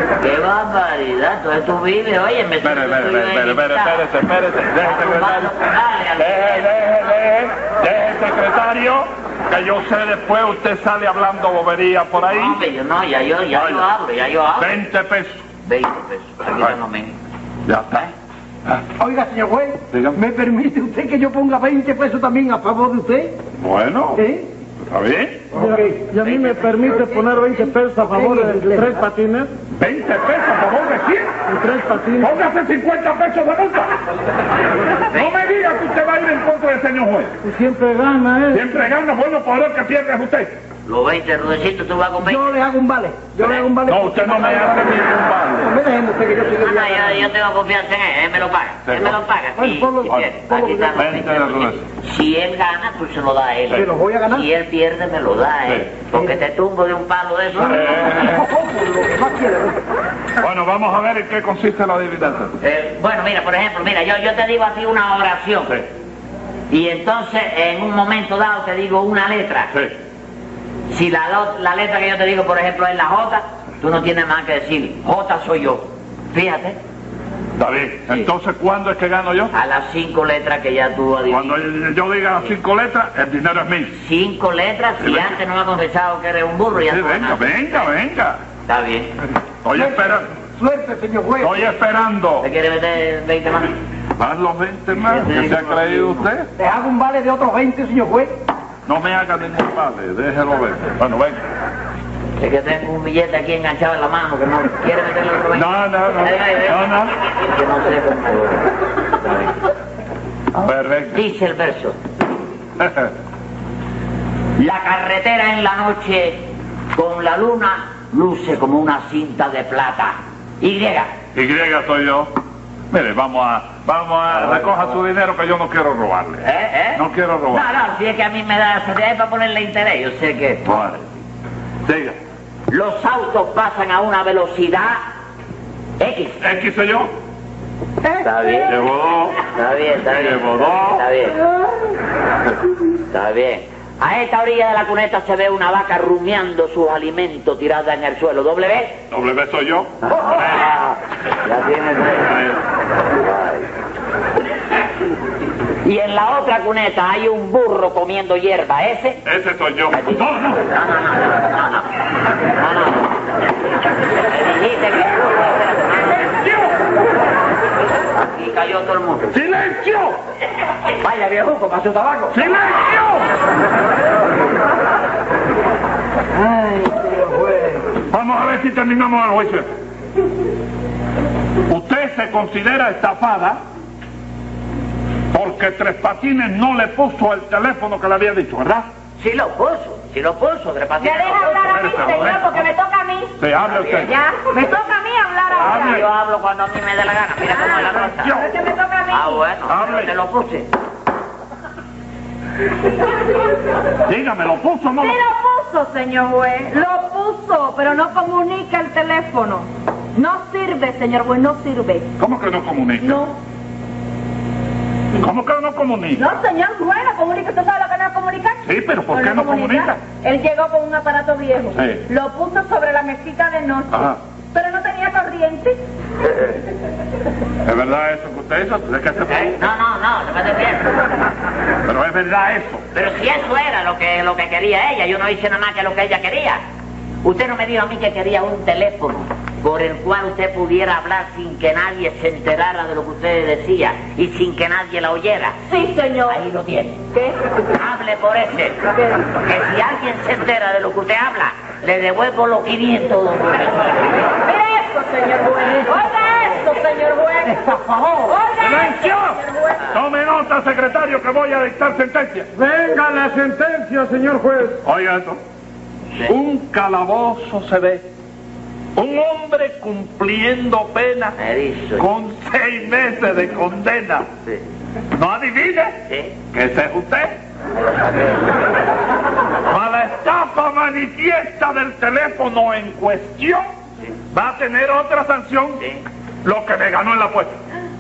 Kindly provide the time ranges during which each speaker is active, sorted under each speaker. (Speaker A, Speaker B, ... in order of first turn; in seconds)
Speaker A: 0.2-4.0, 4.8-6.7, 12.3-14.8, 15.6-17.1, 26.2-26.6, 35.1-35.4, 40.9-42.5, 46.6-58.1, 62.6-65.8, 66.7-69.7, 70.9-76.8, 79.5-81.6, 83.9-87.8, 88.7-89.1, 92.4-93.8, 95.1-96.2, 102.4-109.5, 110.6-112.0, 114.6-121.1, 124.3-124.9, 126.4-130.8, 132.7-135.0, 136.0-136.4, 138.2-138.7, 139.4-141.4, 143.1-149.0, 150.0-152.4, 153.2-153.7, 155.8-159.2, 159.9-161.9, 162.5-163.3, 164.3-166.5, 168.1-169.4, 171.0-172.4, 189.2-192.0, 193.6-194.1, 195.6-198.3, 199.1-200.7, 229.3-230.9, 232.9-236.6, 237.2-245.6, 246.3-247.0, 247.7-248.8, 249.4-254.3, 271.4-272.1, 276.1-276.3, 277.8-278.4
Speaker B: 2.6-5.5, 6.2-12.6, 13.5-13.9, 14.6-15.4, 16.5-16.7, 17.7-18.0, 19.9-20.2, 23.6-24.2, 24.9-25.5, 29.7-31.4, 32.2-34.0, 35.1-37.3, 38.5-40.5, 43.8-45.7, 48.9-49.2, 50.9-51.8, 57.6-58.5, 60.4-62.5, 77.6-79.5, 81.3-83.9, 85.0-85.3, 86.9-88.4, 89.6-90.3, 91.4-92.5, 94.2-96.5, 98.8-101.4, 105.5-107.1, 110.6-111.2, 112.8-113.1, 121.3-122.3, 122.9-126.4, 126.9-127.7, 130.7-131.0, 131.8-132.2, 136.4-137.1, 138.7-139.4, 140.0-141.0, 149.1-150.8, 152.2-152.6, 159.2-160.7, 169.3-170.2, 172.3-173.3, 178.1-179.7, 181.7-183.6, 185.3-188.8, 191.5-192.7, 193.4-194.1, 195.5-196.0, 197.7-198.5, 199.7-200.1, 204.0-205.2, 212.2-213.3, 215.2-216.4, 218.6-220.0, 221.7-222.0, 223.9-224.2, 227.6-229.6, 231.8-232.8, 258.6-262.5, 264.8-265.4, 266.2-268.0, 268.9-271.4, 272.0-274.3, 275.1-276.0, 276.5-277.4, 279.6-283.6, 284.3-285.8, 286.4-287.6
Speaker C: 19.0-23.4, 24.1-24.5, 25.5-29.1, 42.2-47.3, 49.6-51.0, 53.7-54.5, 57.5-59.8, 89.7-91.7, 96.6-98.3, 176.3-177.9, 257.6-258.4
Speaker D: 25.5-29.5, 31.5-32.4, 37.4-38.6, 262.6-264.8
Speaker E: 191.0-193.3, 193.9-196.0, 197.5-199.4, 204.9-212.1, 213.0-213.3, 216.1-225.8, 245.7-246.4, 247.1-247.4, 254.4-257.7, 258.2-259.9